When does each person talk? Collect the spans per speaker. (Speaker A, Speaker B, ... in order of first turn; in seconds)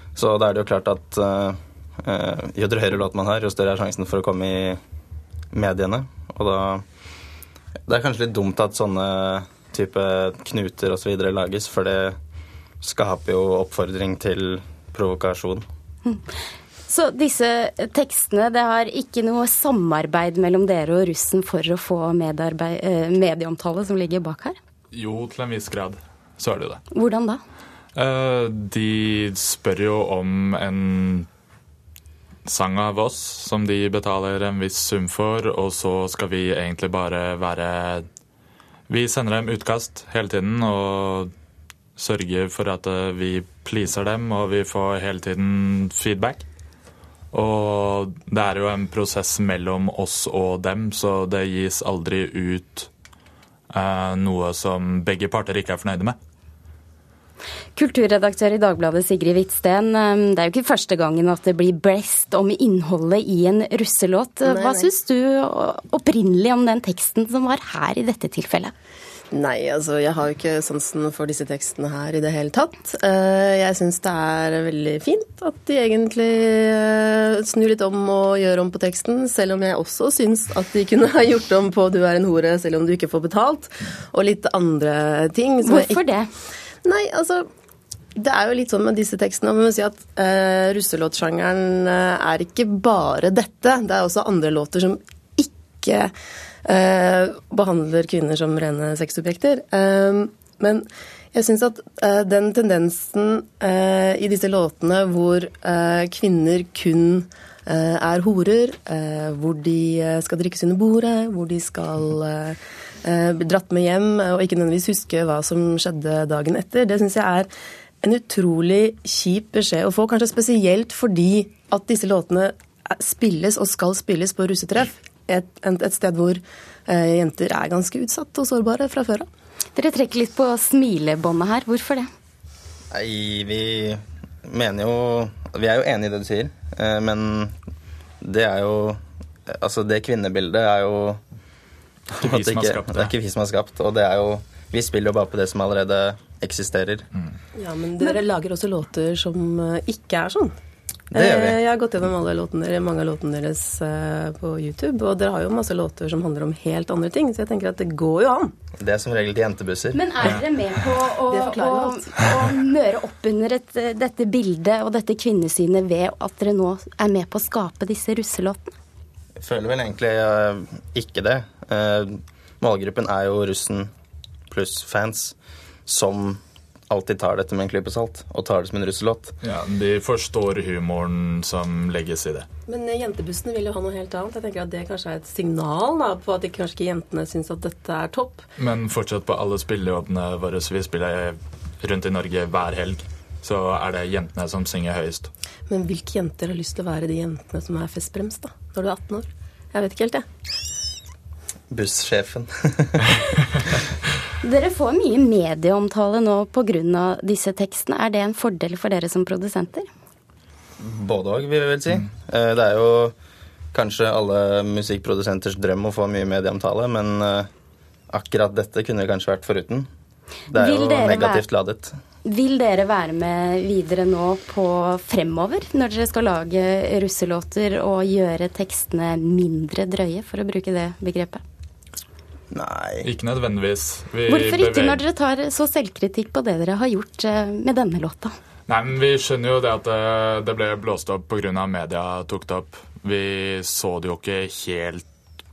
Speaker A: 0.2-4.8, 5.5-6.8, 7.9-12.2, 12.8-15.7, 132.9-137.6, 138.2-141.2, 142.2-147.1, 151.1-151.6, 158.8-160.3, 169.4-173.9, 174.5-175.3, 175.9-179.4, 201.7-203.0, 210.8-213.2, 213.7-217.5, 218.1-219.9, 220.5-222.0, 232.5-233.1
Speaker B: 16.9-24.6, 26.9-27.4, 57.8-68.7, 85.6-86.3, 129.8-132.1, 159.9-168.8, 204.4-209.9, 220.6-221.4, 222.2-231.4, 234.3-238.4
Speaker C: 24.9-26.8, 27.9-31.3, 32.5-38.1, 38.9-41.3, 42.0-46.4, 47.3-52.9, 53.7-56.2, 142.2-143.1, 179.4-182.5, 188.6-195.3, 233.0-235.0, 238.7-245.1
Speaker D: 64.4-64.9, 69.3-86.0, 86.8-87.5, 88.2-96.1, 96.7-117.5, 118.0-129.3, 147.6-150.6, 151.1-158.5, 161.3-162.1, 182.7-188.4, 195.7-200.3